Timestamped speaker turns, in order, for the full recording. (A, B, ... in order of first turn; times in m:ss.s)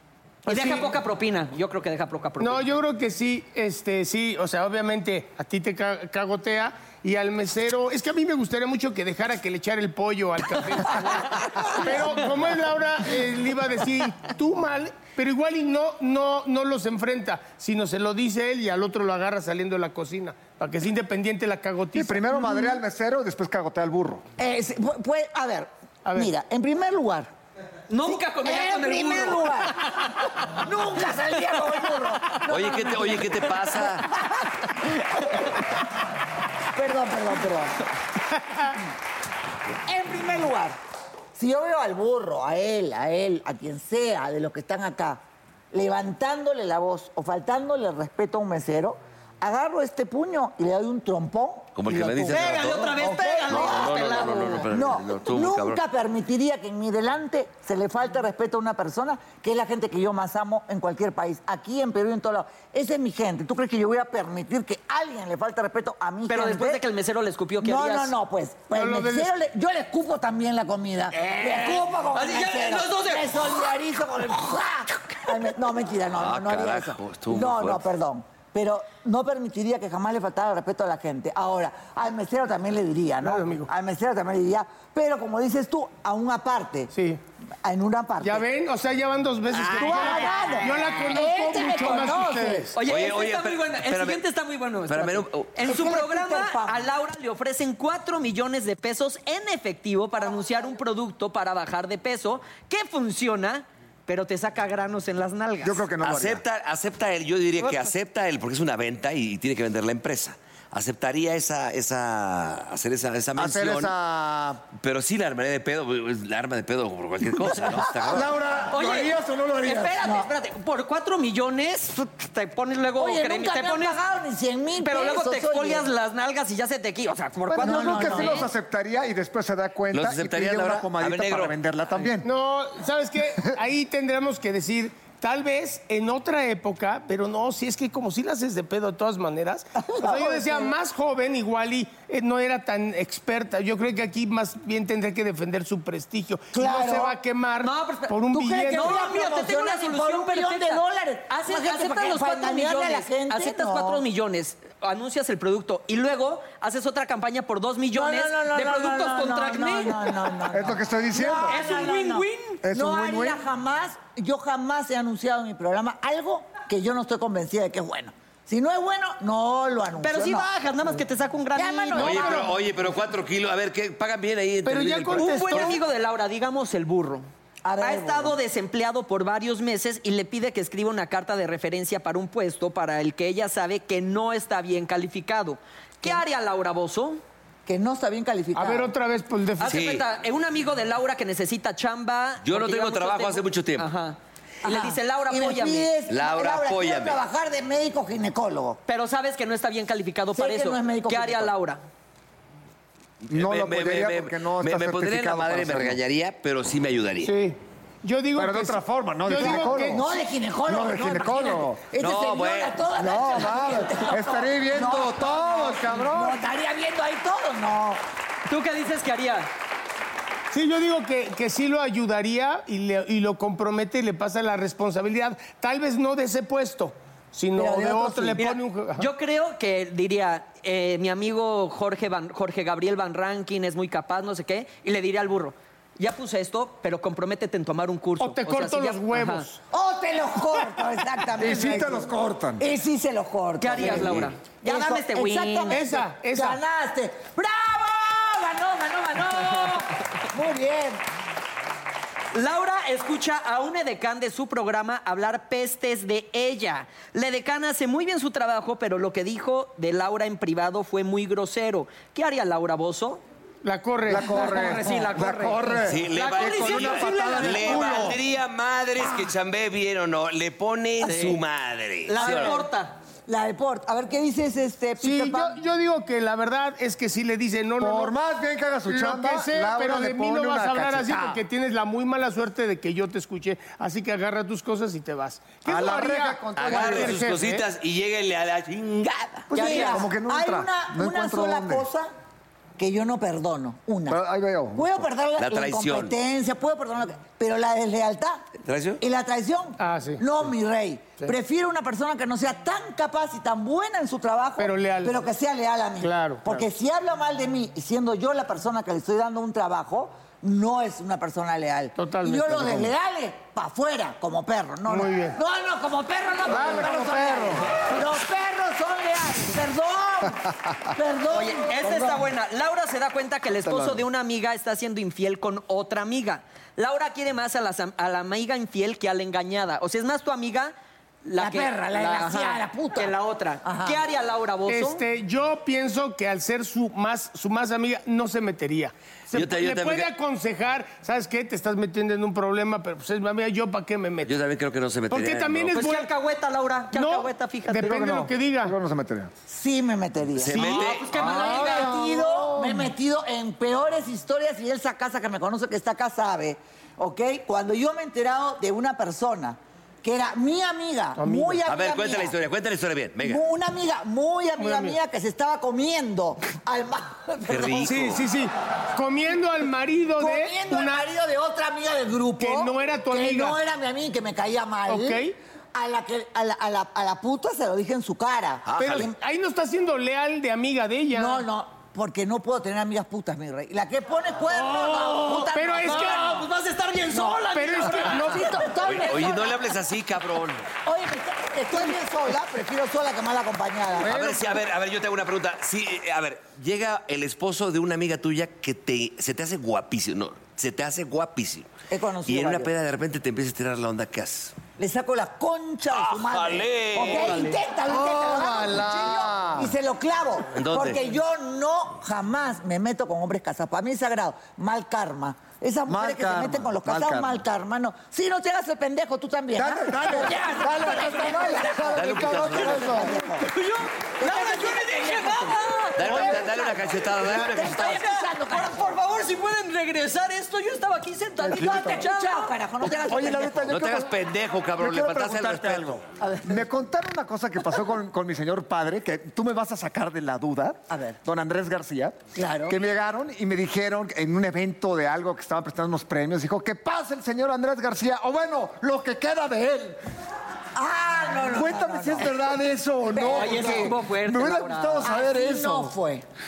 0:00.4-0:02.7 A
0:00.5-0:00.9 B
0:02.4-0:22.4 B
0:21.9-0:24.2 C
0:24.4-0:27.3 D
0:26.0-0:26.3 B
0:27.9-0:30.2 A
0:28.0-0:29.9 D
0:30.4-0:35.6 D
0:32.5-0:34.1 E
0:36.7-0:37.8 D
0:39.8-0:40.8 D
0:41.3-0:45.2 D
0:45.7-1:06.8 D
0:51.8-0:55.8 E
0:52.3-0:54.7 A
1:06.3-1:08.1 A
1:07.6-1:26.9 D
1:08.7-1:09.3 B
1:11.1-1:13.3 A
1:16.1-1:17.8 E
1:23.2-1:23.7 B
1:26.9-1:27.2 B
1:27.6-1:28.4 D
1:28.2-1:32.7 B
1:29.5-1:30.7 A
1:29.7-1:32.6 D
1:32.7-1:45.9 A
1:32.8-1:34.2 E
1:34.9-1:35.5 E
1:35.6-1:36.9 D
1:45.6-1:46.4 C
1:46.0-1:53.9 E
1:53.4-1:54.6 C
1:54.7-1:58.3 E
1:58.0-2:00.0 C
1:58.7-2:04.0 A
1:59.9-2:00.3 D
2:03.0-2:05.9 D
2:04.8-2:08.5 A
2:07.4-2:12.3 C
2:07.6-2:08.5 D
2:09.9-2:11.6 E
2:12.2-2:29.0 B
2:19.8-2:20.7 D
2:26.5-2:27.2 D
2:27.6-2:40.2 A
2:28.3-2:34.0 D
2:37.9-2:50.5 D
2:40.5-2:41.6 C
2:41.4-2:42.6 A
2:42.6-2:43.4 C
2:50.0-2:52.3 A
2:51.6-2:52.4 D
2:52.0-2:55.7 E
2:52.0-2:52.4 B
2:54.6-2:55.8 B
2:55.2-2:57.3 A
2:57.6-2:58.4 D
2:57.8-3:07.2 A
3:07.6-3:08.9 D
3:08.5-3:09.8 B
3:09.6-3:15.9 A
3:09.7-3:10.0 E
3:12.4-3:13.9 E
3:14.6-3:18.8 D
3:16.1-3:17.2 E
3:18.9-3:21.8 A
3:20.4-3:21.5 D
3:23.2-3:27.4 E
3:23.3-3:26.0 C
3:27.2-3:30.0 B
3:28.3-3:30.0 C
3:29.4-3:38.0 D
3:30.7-3:31.8 C
3:32.0-3:32.8 E
3:33.0-3:36.4 C
3:38.5-3:39.5 A
3:40.5-3:49.0 B
3:47.6-3:48.4 D
3:48.4-3:59.5 A
3:58.2-3:59.6 B
3:59.7-4:11.0 D
4:01.4-4:02.6 C
4:03.6-4:05.8 A
4:05.7-4:06.6 B
4:12.3-4:23.2 A
4:23.6-4:25.1 B
4:24.1-4:28.2 C
4:24.4-4:28.2 A
4:25.9-4:32.6 E
4:31.0-4:31.4 A
4:32.1-4:33.0 A
4:32.2-4:32.6 D
4:33.3-4:35.6 D
4:35.0-4:38.1 B
4:37.8-4:41.4 C
4:38.9-4:47.6 B
4:45.6-4:47.2 C
4:46.6-4:49.1 E
4:49.5-4:52.1 D
4:49.5-4:51.8 C
4:49.6-4:50.0 A
4:52.8-4:54.2 D
4:54.1-4:55.1 C
4:54.7-4:58.4 D
4:55.4-4:56.1 E
4:58.6-4:59.0 E
4:59.0-5:22.3 D
4:59.8-5:00.2 B
5:04.6-5:05.2 B
5:06.0-5:06.4 B
5:11.9-5:12.9 B
5:14.9-5:15.4 B
5:16.4-5:17.8 C
5:21.3-5:30.7 A
5:23.6-5:24.0 C
5:31.2-5:35.0 A
5:31.4-5:34.0 D
5:34.7-5:44.4 B
5:39.3-5:40.1 E
5:44.2-5:45.8 E
5:45.1-5:46.1 B
5:45.7-5:48.2 A
5:46.9-5:48.8 B
5:47.8-5:49.3 C
5:49.5-6:02.3 D
5:50.4-5:51.1 E
5:50.5-5:50.8 B
5:50.6-5:52.0 A
5:51.1-5:52.9 C
6:01.2-6:01.6 B
6:01.6-6:03.4 E
6:03.2-6:08.1 D
6:04.6-6:05.0 B
6:07.5-6:08.2 E
6:07.9-6:11.1 B
6:10.2-6:19.1 D
6:12.4-6:13.6 B
6:14.9-6:15.3 B
6:18.6-6:19.1 E
6:18.8-6:21.4 B
6:21.1-6:26.4 D
6:24.5-6:29.6 A
6:25.5-6:26.4 B
6:27.1-6:29.6 D
6:27.5-6:28.7 B
6:28.8-6:30.7 E
6:30.8-6:34.2 D
6:34.0-6:34.6 C
6:34.0-6:41.7 E
6:41.9-6:42.7 D
6:42.2-6:44.5 E
6:44.8-7:03.5 D
6:45.9-6:47.6 E
6:46.9-6:47.5 A
6:47.9-6:49.7 C
6:50.5-6:51.0 E
6:55.9-6:57.4 C
6:59.5-7:03.3 C
7:00.0-7:01.9 A
7:01.9-7:02.9 E
7:03.4-7:06.5 A
7:04.2-7:08.9 D
7:06.0-7:08.0 E
7:07.5-7:12.5 A
7:11.4-7:13.8 D
7:11.4-7:12.0 C
7:12.8-7:14.2 C
7:13.7-7:16.0 E
7:14.8-7:30.0 C
7:16.2-7:16.6 D
7:20.9-7:21.2 D
7:22.3-7:22.8 D
7:30.8-7:32.3 D
7:31.4-7:36.0 C
7:33.1-7:34.0 D
7:33.2-7:35.1 A
7:35.0-7:36.2 D